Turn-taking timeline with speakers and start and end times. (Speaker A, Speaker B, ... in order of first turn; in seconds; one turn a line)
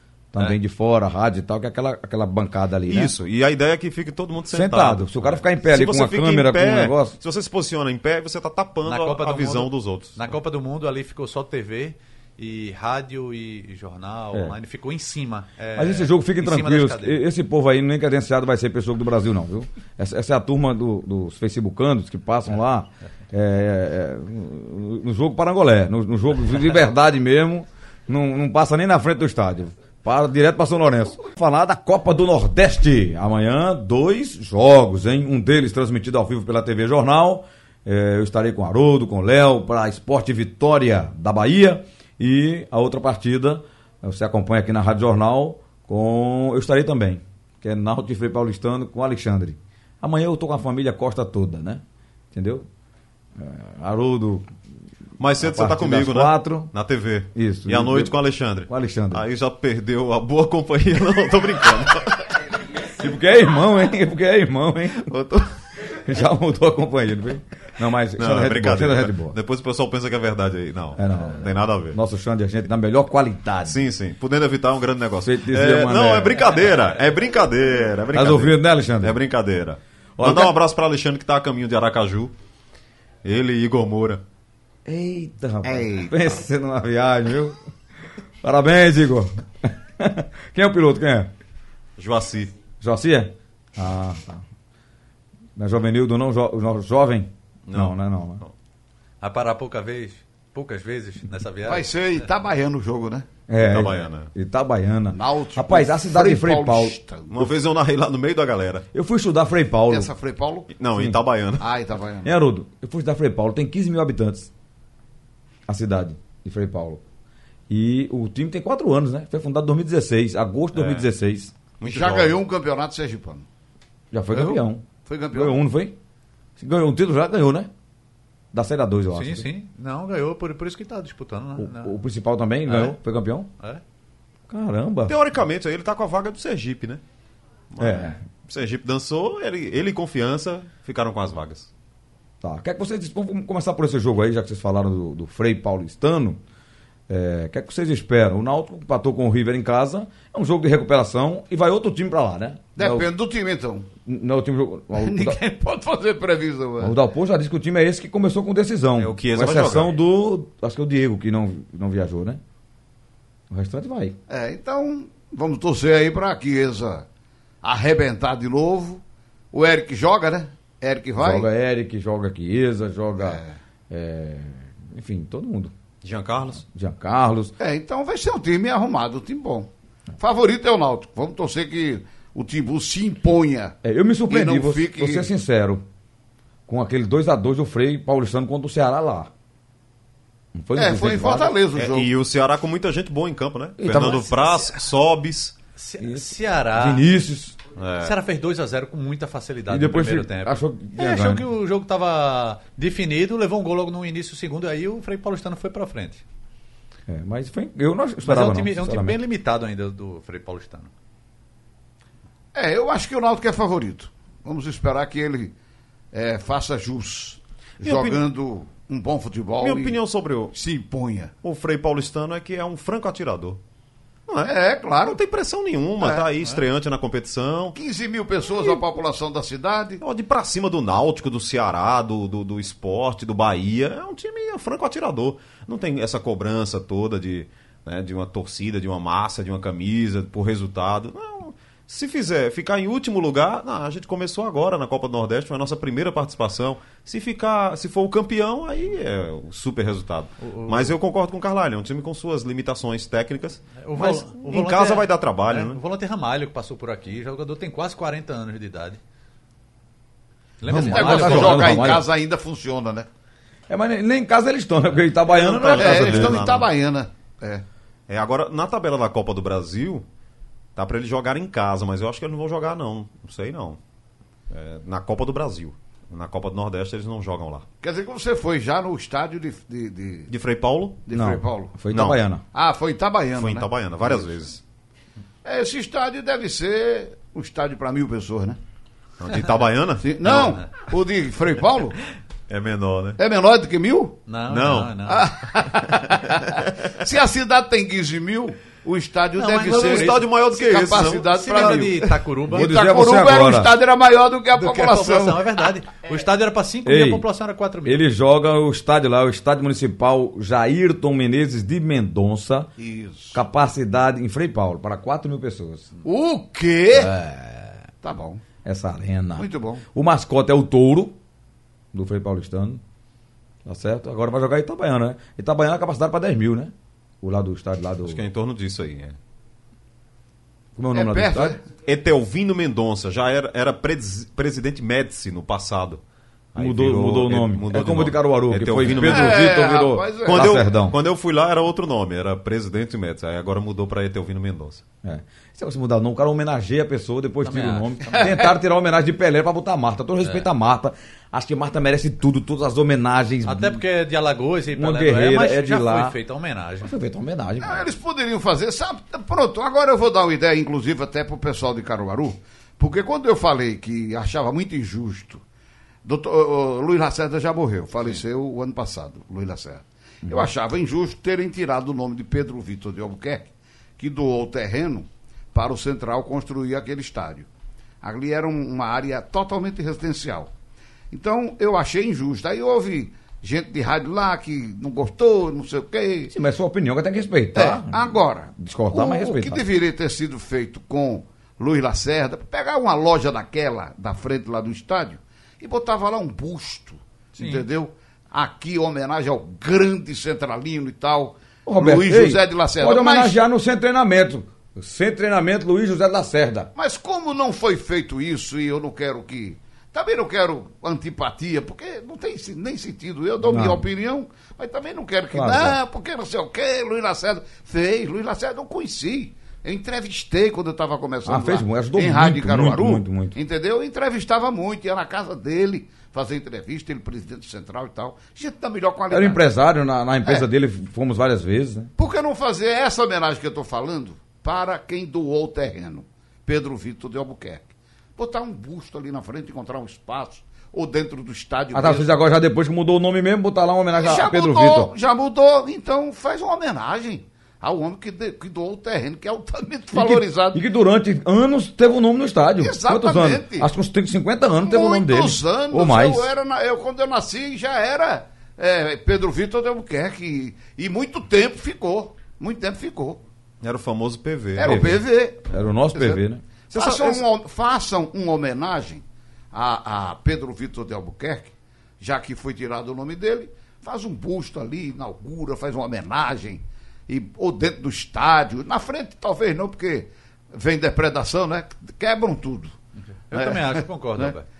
Speaker A: 0.3-3.1
Speaker B: 2.9-10.2
Speaker A: 4.5-7.2
Speaker C: 8.8-17.2
Speaker A: 15.8-51.8
Speaker A: 52.3-52.6
Speaker A: 53.4-54.5
Speaker B: 55.2-62.4
Speaker A: 55.4-56.7
Speaker A: 57.3-58.1
Speaker A: 58.7-59.2
Speaker A: 62.9-65.1
Speaker B: 65.0-65.6
Speaker A: 65.9-69.3
Speaker B: 68.2-72.0
Speaker A: 71.0-73.8
Speaker B: 73.6-82.3
Speaker A: 75.2-76.4
Speaker A: 78.1-79.2
Speaker A: 80.2-80.5
Speaker B: 83.2-84.2
Speaker A: 84.8-87.6
Speaker D: 85.6-86.2
Speaker A: 88.4-91.3
Speaker B: 92.0-92.5
Speaker A: 92.8-94.4
Speaker A: 95.6-98.4
Speaker B: 97.7-98.5
Speaker C: 99.2-101.9
Speaker D: 101.6-103.3
Speaker A: 103.5-107.0
Speaker B: 103.6-104.3
Speaker D: 105.1-107.4
Speaker B: 107.3-108.8
Speaker A: 108.9-110.1
Speaker D: 109.9-110.7
Speaker B: 110.7-111.7
Speaker D: 111.6-112.3
Speaker A: 112.2-114.5
Speaker A: 115.7-117.0
Speaker A: 117.7-121.5
Speaker B: 120.7-121.1
Speaker B: 121.8-122.4
Speaker D: 121.8-123.5
Speaker A: 124.1-126.0
Speaker D: 124.3-125.6
Speaker A: 126.6-127.7
Speaker A: 128.5-129.5
Speaker C: 129.1-131.9
Speaker A: 131.6-133.5
Speaker C: 132.7-132.9
Speaker A: 134.5-135.2
Speaker B: 135.1-137.0
Speaker B: 137.7-141.7
Speaker A: 137.8-138.2
Speaker A: 142.4-146.4
Speaker A: 147.1-153.1
Speaker D: 152.8-153.9
Speaker A: 154.1-155.4
Speaker D: 155.0-156.9
Speaker A: 156.8-162.4
Speaker B: 159.0-159.9
Speaker A: 163.5-164.2
Speaker D: 164.3-167.1
Speaker D: 167.6-171.5
Speaker A: 171.2-175.7
Speaker D: 173.2-173.6
Speaker B: 176.0-176.6
Speaker A: 176.6-177.5
Speaker D: 177.6-183.8
Speaker A: 183.8-185.8
Speaker D: 184.3-185.3
Speaker A: 186.7-189.3
Speaker A: 190.5-191.5
Speaker D: 190.8-192.1
Speaker B: 191.7-195.5
Speaker A: 193.8-194.3
Speaker C: 195.8-197.0
Speaker A: 196.0-197.6
Speaker B: 197.8-198.1
Speaker C: 198.0-206.2
Speaker A: 199.7-201.4
Speaker A: 207.1-209.2
Speaker C: 208.2-210.9
Speaker D: 212.5-215.5
Speaker D: 216.1-220.0
Speaker B: 217.8-218.2
Speaker B: 219.6-220.5
Speaker D: 220.5-221.3
Speaker B: 221.4-223.6
Speaker B: 224.3-227.8
Speaker D: 224.4-225.2
Speaker D: 226.0-226.2
Speaker D: 227.7-230.0
Speaker B: 230.0-255.8
Speaker C: 250.4-250.9
Speaker C: 253.8-259.0
Speaker C: 260.6-261.9
Speaker A: 260.7-262.1
Speaker D: 260.8-263.1
Speaker A: 263.7-266.4
Speaker B: 265.3-266.7
Speaker D: 265.7-267.6
Speaker B: 268.1-270.0
Speaker B: 270.8-273.8
Speaker B: 274.5-277.6
Speaker D: 277.8-280.3
Speaker B: 280.3-281.0
Speaker D: 281.1-281.7
Speaker A: 281.1-282.4
Speaker B: 281.9-282.2
Speaker D: 282.5-284.3
Speaker B: 283.3-284.6
Speaker D: 285.4-288.6
Speaker B: 289.2-290.7
Speaker D: 290.0-292.0
Speaker B: 292.5-293.2
Speaker D: 293.2-294.2
Speaker C: 294.3-295.3
Speaker B: 294.5-295.0
Speaker D: 295.1-305.4
Speaker C: 299.4-300.2
Speaker B: 299.6-301.3
Speaker C: 301.1-302.8
Speaker A: 302.5-303.7
Speaker C: 304.6-308.0
Speaker A: 306.8-307.2
Speaker A: 307.8-312.7
Speaker D: 312.8-313.4
Speaker A: 313.3-315.9
Speaker D: 316.0-317.1
Speaker A: 316.9-317.7
Speaker D: 318.0-318.4
Speaker A: 318.6-321.1
Speaker D: 319.4-319.8
Speaker A: 321.9-322.8
Speaker A: 323.6-328.2
Speaker B: 328.0-329.2
Speaker A: 330.8-331.6
Speaker D: 330.9-331.6
Speaker B: 331.8-336.0
Speaker B: 336.5-339.5
Speaker A: 336.6-341.0
Speaker D: 338.9-340.6
Speaker B: 340.2-344.8
Speaker A: 345.0-353.8
Speaker C: 347.4-348.3
Speaker D: 348.1-348.5
Speaker C: 353.4-356.9
Speaker A: 354.7-356.1
Speaker A: 356.8-357.9
Speaker D: 357.6-365.4
Speaker D: 366.0-377.5
Speaker A: 370.2-370.5
Speaker D: 378.0-380.5
Speaker D: 381.1-386.3
Speaker A: 386.3-389.6
Speaker D: 387.5-403.4
Speaker C: 397.4-397.6
Speaker A: 401.6-406.7
Speaker D: 406.8-429.4
Speaker A: 413.4-413.8
Speaker A: 415.3-415.8
Speaker A: 421.2-423.4
Speaker A: 429.1-431.9
Speaker D: 432.0-442.1
Speaker A: 441.7-444.9
Speaker D: 443.9-450.6
Speaker A: 449.9-456.3
Speaker D: 452.6-453.7
Speaker D: 454.6-463.2
Speaker B: 463.6-464.9
Speaker D: 464.6-466.2
Speaker A: 464.6-466.4
Speaker D: 466.7-482.7
Speaker B: 466.7-467.2
Speaker C: 483.3-484.4
Speaker D: 483.3-484.3